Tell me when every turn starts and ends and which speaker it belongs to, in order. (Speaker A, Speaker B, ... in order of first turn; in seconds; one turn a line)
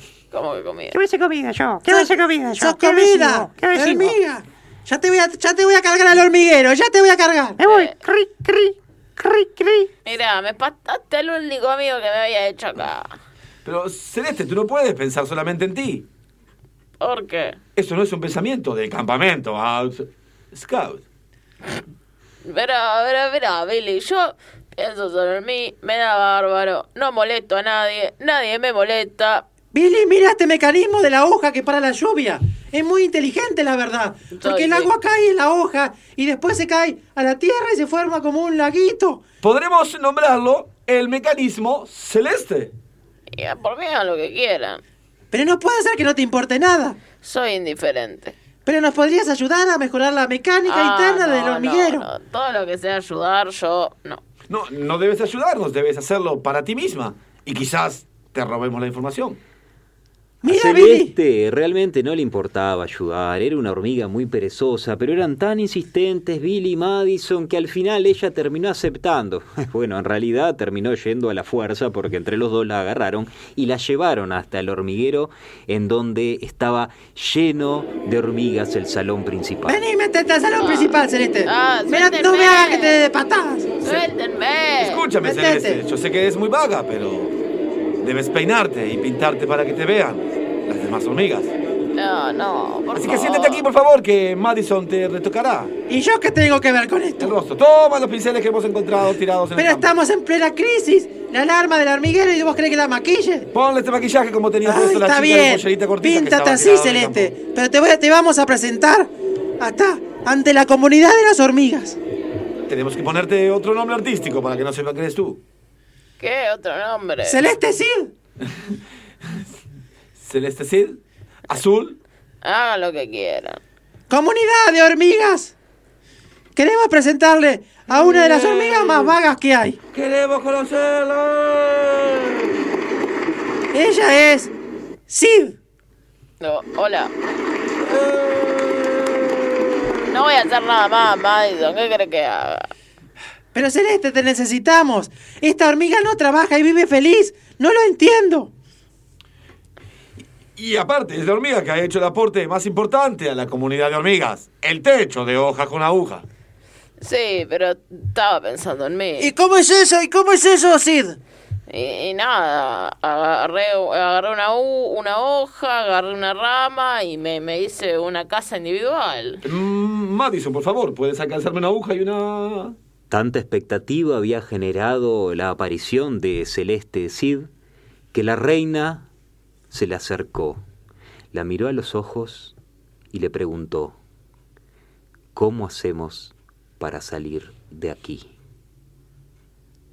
Speaker A: 0.3-1.0
Speaker B: 0.9-4.1
Speaker C: 1.9-7.6
Speaker B: 7.6-9.9
Speaker A: 7.6-8.0
Speaker A: 10.0-13.2
Speaker D: 13.6-16.1
Speaker A: 17.0-17.6
Speaker D: 17.8-21.0
Speaker A: 22.4-29.4
Speaker C: 29.7-39.2
Speaker A: 34.3-34.9
Speaker D: 39.4-42.7
Speaker A: 43.3-44.8
Speaker C: 45.3-47.0
Speaker A: 47.2-48.4
Speaker C: 48.6-52.0
Speaker A: 50.7-54.2
Speaker D: 54.5-59.4
Speaker C: 60.4-61.1
Speaker E: 60.4-79.8
Speaker C: 79.7-84.0
Speaker A: 80.6-83.0
Speaker A: 83.8-85.0
Speaker D: 84.8-87.3
Speaker C: 85.2-85.8
Speaker D: 88.0-91.5
Speaker A: 92.0-93.7
Speaker D: 92.9-95.7
Speaker C: 95.9-97.3
Speaker D: 97.2-99.9
Speaker C: 99.5-103.5
Speaker D: 103.5-107.3
Speaker C: 104.6-112.0
Speaker D: 112.7-115.4
Speaker A: 116.2-117.4
Speaker C: 117.2-118.1
Speaker D: 118.4-118.7
Speaker D: 120.2-122.0
Speaker A: 122.4-123.6
Speaker C: 124.1-125.5
Speaker C: 126.5-129.8
Speaker D: 129.9-132.5
Speaker C: 133.7-134.5
Speaker C: 135.1-135.6
Speaker A: 136.4-137.1
Speaker D: 137.8-139.2
Speaker A: 140.0-142.7
Speaker C: 143.5-148.5
Speaker D: 150.6-156.2
Speaker A: 157.0-159.3
Speaker C: 159.2-161.2
Speaker A: 161.7-169.4
Speaker D: 169.4-172.8
Speaker E: 173.1-177.5
Speaker E: 178.1-179.1
Speaker E: 179.7-180.6
Speaker E: 181.3-182.5
Speaker E: 183.1-183.9
Speaker E: 185.3-188.3